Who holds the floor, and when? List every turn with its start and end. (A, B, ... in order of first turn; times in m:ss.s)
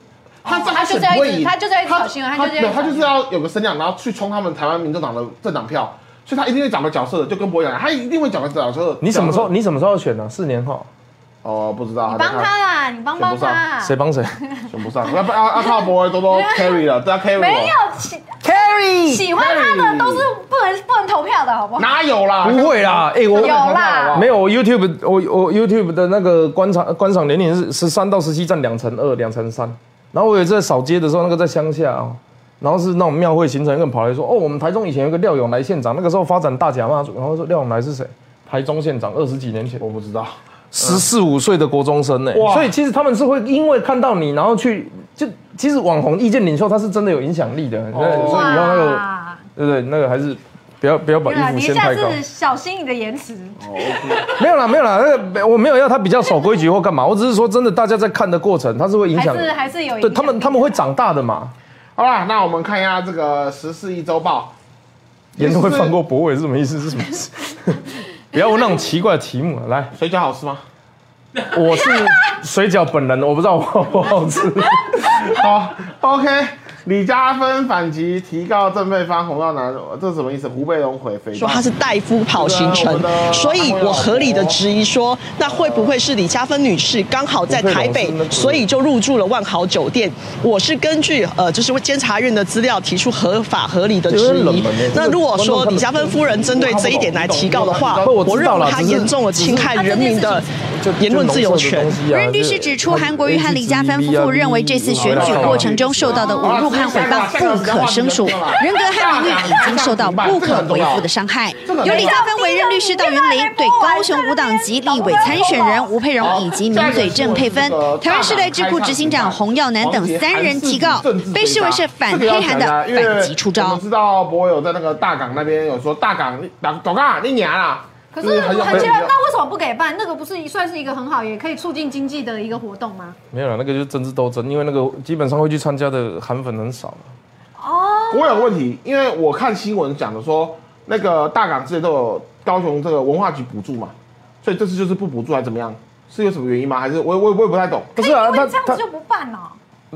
0:00.4-0:09.5 A
0:00.4-0:03.1 B
0:09.0-0:10.9 C
0:11.4-0:12.5 A
0:12.1-0:13.9 B
0:13.2-0:13.6 A
0:13.8-0:14.4 C
0:14.7-0:17.7 A
0:15.6-0:16.8 B
0:17.4-0:18.4 B
0:18.4-0:19.3 C
0:19.0-0:21.9 B
0:19.3-0:20.3 A
0:21.8-0:24.3 A
0:22.4-0:39.8 C
0:23.4-0:24.2 B
0:39.8-0:41.0 A
0:40.7-0:49.0 C
0:42.3-0:42.7 A
0:47.9-0:48.6 A
0:48.2-0:49.4 B
0:49.6-0:52.2 C
0:51.2-0:54.3 B
0:53.6-0:54.3 A
0:54.3-1:01.5 C
0:59.1-1:00.8 B
1:02.0-1:04.5 A
1:05.4-1:06.0 A
1:05.4-1:09.9 C
1:09.9-1:10.6 A
1:11.4-1:15.3 C
1:15.2-1:21.6 A
1:21.3-1:40.5 D
1:22.3-1:24.6 A
1:25.4-1:25.9 A
1:27.5-1:28.7 C
1:34.1-1:36.2 C
1:36.1-1:38.4 A
1:38.0-1:46.0 C
1:39.8-1:40.3 B
1:41.0-1:42.0 D
1:42.0-2:03.8 E
1:45.0-1:51.1 A
1:46.0-1:47.1 B
1:48.6-1:49.2 B
1:51.6-1:52.2 A
1:51.7-1:55.9 B
1:56.2-2:09.1 A
2:08.1-2:13.2 B
2:13.3-2:17.1 C
2:17.6-2:18.4 B
2:18.1-2:28.0 A
2:28.0-2:28.8 C
2:28.0-2:29.6 B